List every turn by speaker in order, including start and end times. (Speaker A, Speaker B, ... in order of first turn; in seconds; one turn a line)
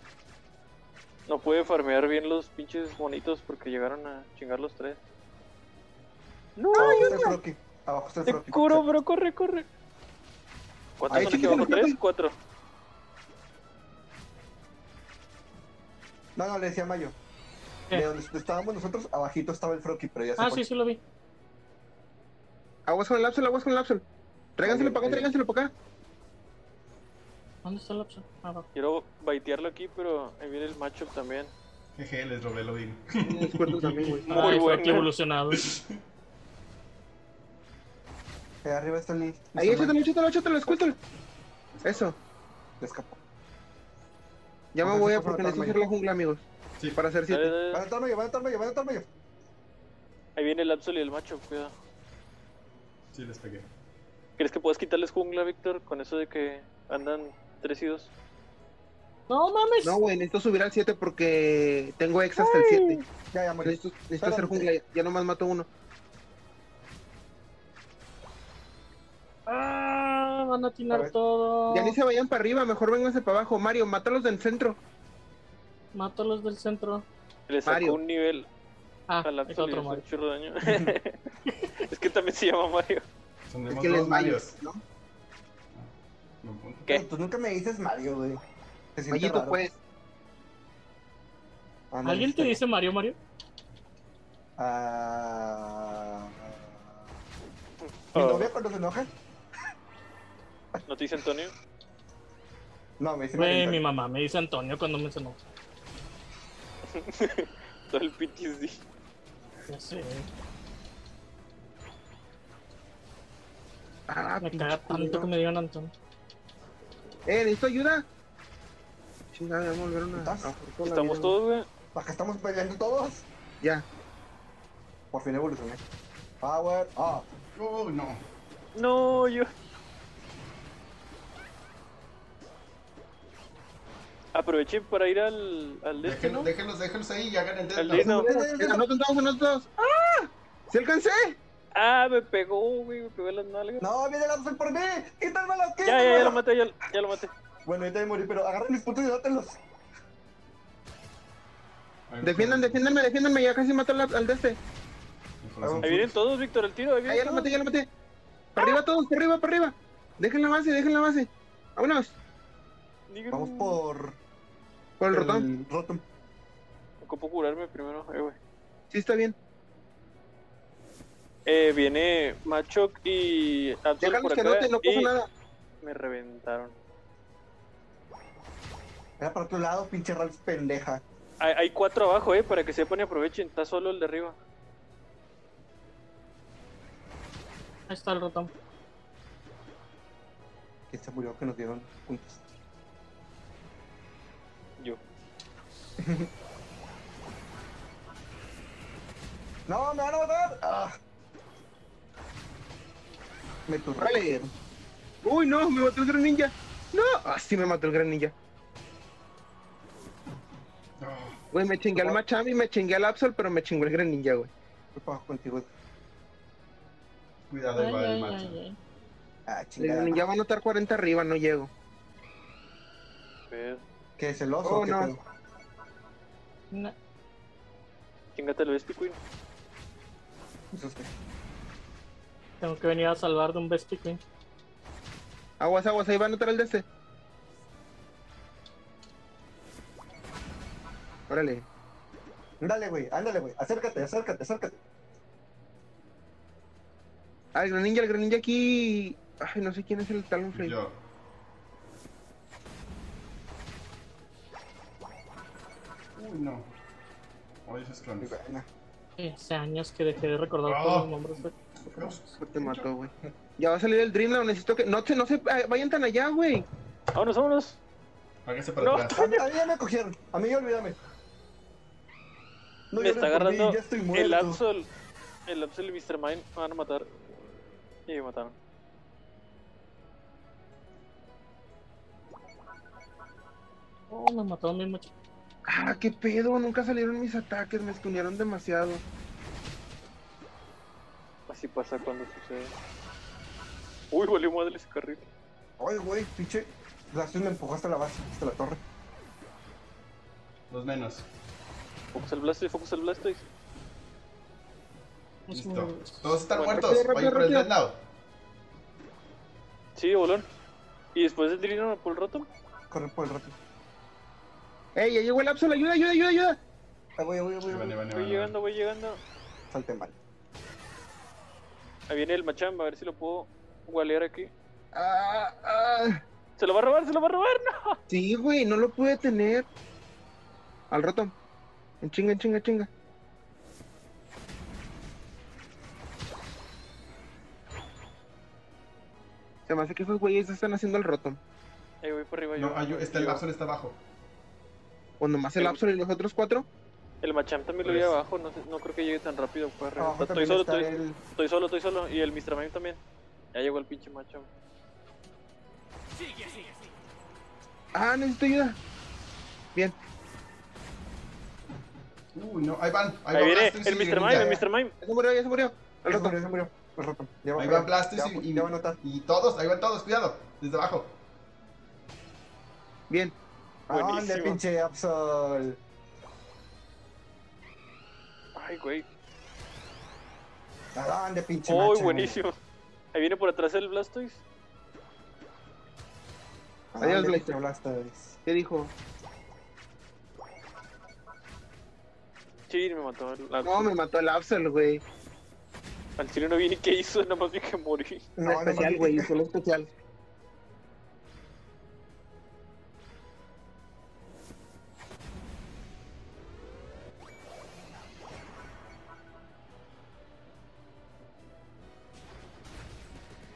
Speaker A: 1.3-5.0
Speaker A: 6.6-7.4
Speaker B: 6.7-8.8
Speaker A: 8.2-9.7
Speaker A: 11.0-12.3
Speaker C: 11.1-12.0
Speaker B: 11.1-11.8
Speaker B: 16.4-17.1
Speaker B: 17.9-20.6
Speaker D: 20.4-21.0
Speaker C: 22.9-24.0
Speaker C: 24.6-25.7
Speaker B: 24.6-25.3
Speaker D: 27.6-28.7
Speaker A: 28.7-31.5
Speaker E: 31.9-34.5
Speaker C: 33.2-34.4
Speaker D: 34.0-35.6
Speaker A: 34.3-35.1
Speaker E: 35.5-36.0
Speaker B: 38.6-40.0
Speaker C: 39.5-41.0
Speaker E: 41.7-42.1
Speaker C: 41.8-42.1
Speaker B: 42.8-43.2
Speaker C: 44.7-47.5
Speaker B: 44.8-45.8
Speaker A: 47.3-47.8
Speaker B: 47.7-49.1
Speaker A: 50.4-51.7
Speaker E: 53.1-53.7
Speaker A: 54.4-58.1
Speaker D: 59.3-60.0
Speaker C: 59.8-63.0
Speaker A: 62.4-63.0
Speaker B: 63.3-64.7
Speaker C: 63.6-65.7
Speaker D: 69.5-72.0
Speaker C: 71.7-74.8
Speaker D: 75.9-77.0
Speaker A: 77.5-78.5
Speaker C: 77.7-78.0
Speaker D: 79.1-80.0
Speaker A: 79.2-81.2
Speaker B: 80.7-80.9
Speaker D: 81.5-81.7
Speaker A: 81.8-83.0
Speaker E: 83.5-84.6
Speaker C: 83.7-84.8
Speaker E: 85.7-86.9
Speaker B: 86.9-88.4
Speaker B: 89.0-89.6
Speaker C: 89.1-89.8
Speaker B: 91.9-92.6
Speaker D: 92.0-93.2
Speaker B: 94.6-97.0
Speaker A: 97.8-98.5
Speaker B: 98.1-99.1
Speaker A: 100.8-101.5
Speaker B: 103.0-103.8
Speaker D: 103.3-105.4
Speaker A: 106.9-108.8
Speaker D: 109.7-110.3
Speaker C: 114.1-115.3
Speaker D: 114.4-115.9
Speaker C: 117.3-118.1
Speaker C: 119.3-121.3
Speaker B: 120.2-120.5
Speaker A: 120.8-121.7
Speaker B: 121.9-123.2
Speaker B: 125.1-125.8
Speaker B: 126.4-127.3
Speaker E: 127.5-128.2
Speaker A: 128.7-129.5
Speaker A: 134.3-136.5
Speaker E: 136.0-138.2
Speaker A: 137.8-138.7
Speaker B: 137.9-138.8
Speaker C: 138.2-141.4
Speaker A: 141.7-143.8
Speaker B: 143.8-146.4
Speaker A: 145.8-147.3
Speaker B: 147.7-149.6
Speaker E: 152.1-152.8
Speaker C: 152.2-154.6
Speaker E: 155.4-156.1
Speaker B: 155.6-156.1
Speaker A: 155.8-157.5
Speaker C: 157.1-157.9
Speaker C: 158.6-162.2
Speaker A: 163.1-163.8
Speaker B: 163.3-164.2
Speaker C: 165.0-165.4
Speaker B: 165.1-166.0
Speaker A: 167.0-168.4
Speaker C: 168.9-169.4
Speaker A: 171.4-175.1
Speaker C: 174.0-175.3
Speaker A: 175.8-176.7
Speaker B: 179.2-181.0
Speaker A: 181.4-184.3
Speaker D: 187.9-188.5
Speaker B: 190.9-192.4
Speaker B: 196.0-196.3
Speaker B: 199.7-200.9
Speaker B: 203.7-204.5
Speaker C: 204.0-204.3
Speaker C: 205.2-208.3
Speaker E: 211.0-211.4
Speaker C: 211.5-214.5
Speaker B: 214.9-215.7
Speaker E: 217.5-218.6
Speaker D: 217.7-218.8
Speaker B: 219.5-220.2
Speaker C: 219.8-221.7
Speaker A: 223.5-223.8
Speaker B: 224.2-225.2
Speaker C: 224.6-225.1
Speaker A: 228.3-229.2
Speaker B: 230.7-231.1
Speaker D: 232.6-234.2
Speaker C: 235.6-236.8
Speaker C: 241.3-241.7
Speaker B: 242.6-244.8
Speaker C: 247.5-250.7
Speaker E: 250.5-251.0
Speaker E: 256.1-256.7
Speaker E: 257.6-258.3
Speaker B: 258.2-258.7
Speaker D: 259.2-261.5
Speaker E: 260.6-262.9
Speaker C: 262.4-266.6
Speaker A: 267.1-267.8
Speaker E: 268.4-269.2
Speaker A: 268.8-269.4
Speaker B: 269.1-271.0
Speaker B: 272.9-274.6
Speaker A: 273.0-274.9
Speaker A: 275.5-277.5
Speaker A: 278.1-278.5
Speaker D: 284.1-285.1
Speaker C: 285.7-289.0
Speaker A: 291.5-292.7
Speaker A: 294.1-295.3
Speaker B: 295.8-298.8
Speaker E: 300.7-301.2
Speaker A: 302.1-303.4
Speaker D: 305.5-306.4
Speaker E: 305.5-308.0
Speaker A: 306.5-306.9
Speaker C: 306.7-307.7
Speaker A: 309.9-310.4
Speaker A: 311.1-312.5
Speaker B: 312.9-313.6
Speaker C: 314.9-316.6
Speaker B: 317.2-318.0
Speaker E: 317.6-318.6
Speaker A: 318.1-319.2
Speaker B: 319.7-320.1
Speaker A: 322.1-324.5
Speaker C: 324.9-326.2
Speaker A: 326.6-328.0
Speaker C: 328.1-329.7
Speaker C: 330.9-331.3
Speaker C: 332.0-332.9
Speaker C: 339.7-341.4
Speaker A: 342.0-343.4
Speaker E: 342.6-344.0
Speaker C: 345.2-346.7
Speaker A: 347.2-353.0
Speaker E: 347.8-348.1
Speaker B: 350.0-351.2
Speaker A: 353.5-354.5
Speaker C: 357.9-358.8
Speaker E: 362.3-364.6
Speaker A: 363.3-364.9
Speaker B: 364.3-364.6
Speaker C: 365.0-366.4
Speaker B: 366.1-369.0
Speaker E: 367.6-371.1
Speaker C: 373.1-373.4
Speaker B: 373.9-375.8
Speaker A: 373.9-374.6
Speaker A: 378.6-379.1
Speaker B: 380.9-382.4
Speaker A: 381.7-382.5
Speaker A: 383.1-384.4
Speaker B: 386.9-388.4
Speaker C: 387.0-387.5
Speaker C: 388.4-388.9
Speaker A: 392.7-393.9
Speaker C: 393.6-395.0
Speaker A: 396.2-398.3
Speaker B: 398.4-399.3
Speaker C: 398.4-399.9